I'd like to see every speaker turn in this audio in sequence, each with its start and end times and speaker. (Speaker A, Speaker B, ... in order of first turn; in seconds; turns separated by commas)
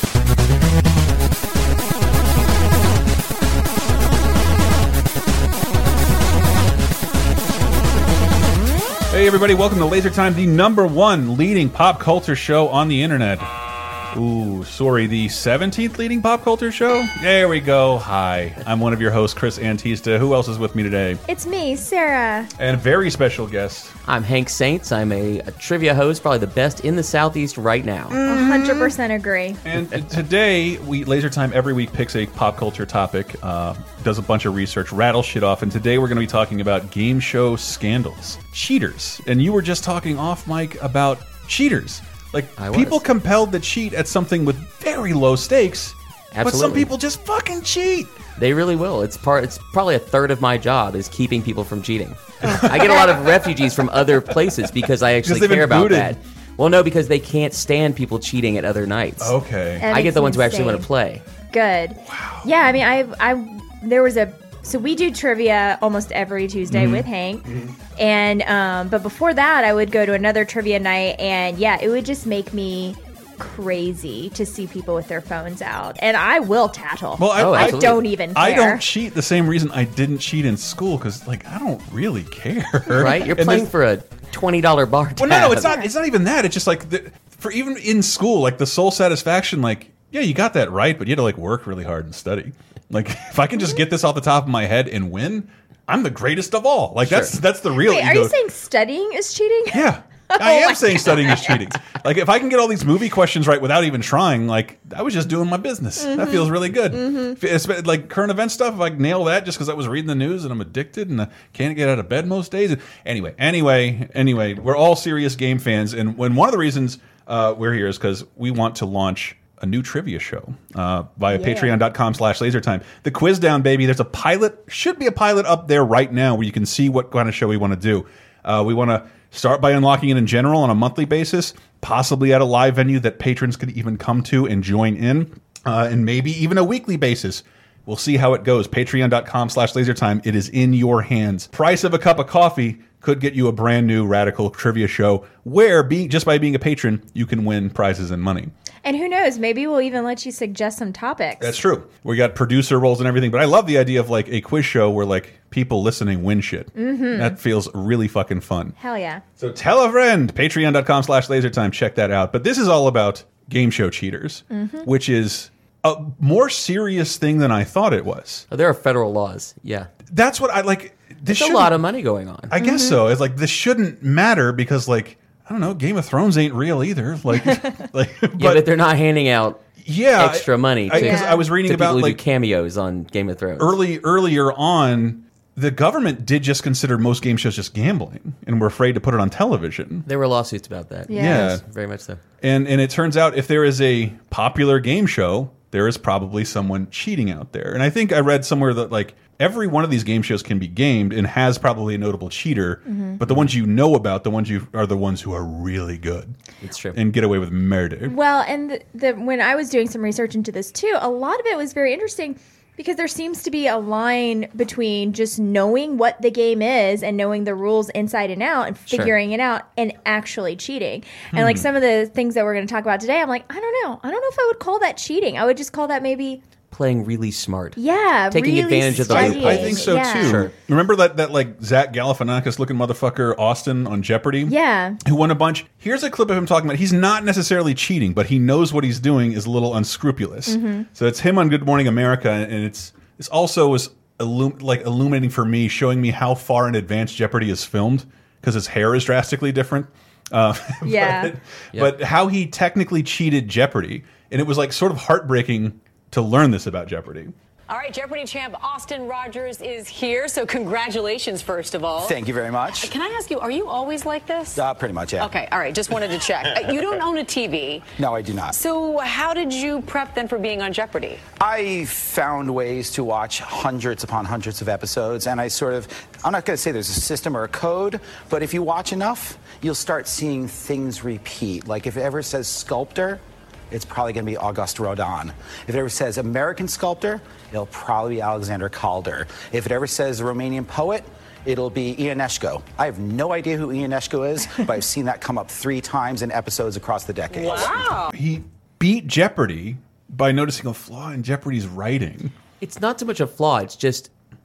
Speaker A: 9.1-13.5, Speaker A: 14.1-21.2, Speaker B: 21.3-22.5, Speaker A: 22.6-23.9, Speaker C: 24.1-28.2, Speaker A: 28.1-28.9, Speaker B: 28.2-29.6, Speaker A: 29.6-48.1, Speaker C: 42.6-43.0, Speaker C: 46.3-46.9, Speaker C: 48.4-59.4, Speaker A: 52.4-53.2, Speaker B: 52.8-53.3, Speaker A: 55.2-56.2, Speaker A: 59.2-59.9, Speaker B: 59.8-60.9, Speaker C: 59.9-61.2, Speaker B: 61.5-78.8, Speaker A: 62.0-62.5, Speaker A: 66.7-67.7, Speaker A: 77.2-83.7, Speaker C: 77.4-78.0, Speaker C: 83.0-85.8, Speaker A: 85.2-98.3, Speaker B: 85.6-85.9, Speaker C: 97.0-97.3, Speaker B: 97.7-101.7, Speaker A: 99.7-148.5, Speaker B: 106.0-107.4, Speaker B: 121.3-121.8, Speaker B: 148.8-151.6, Speaker A: 151.4-158.8, Speaker B: 156.8-157.4, Speaker B: 158.8-159.2, Speaker A: 159.4-168.5, Speaker B: 164.5-164.9, Speaker C: 168.5-169.9, Speaker A: 170.1-171.8, Speaker C: 171.3-172.5, Speaker A: 172.5-178.7, Speaker B: 172.6-173.0, Speaker B: 177.3-177.7, Speaker C: 178.4-179.6, Speaker A: 179.8-182.2, Speaker C: 180.2-183.7, Speaker B: 180.9-181.5, Speaker A: 183.6-190.1, Speaker C: 190.1-192.2, Speaker B: 191.1-191.6, Speaker A: 191.1-191.6, Speaker A: 192.4-206.4, Speaker B: 202.9-203.2, Speaker C: 206.6-207.0, Speaker A: 206.9-208.2, Speaker B: 208.0-226.4, Speaker A: 221.3-221.7, Speaker C: 226.7-230.5, Speaker B: 227.8-230.4, Speaker A: 228.9-257.3, Speaker B: 234.5-235.0, Speaker B: 240.5-240.9, Speaker B: 250.8-251.3, Speaker D: 257.7-262.2, Speaker E: 262.0-262.9, Speaker D: 262.7-264.6, Speaker E: 264.6-265.3, Speaker D: 265.2-267.9, Speaker E: 268.0-268.6, Speaker D: 268.5-271.2, Speaker E: 271.4-297.9, Speaker D: 297.3-298.1, Speaker A: 298.1-302.3, Speaker C: 302.6-304.1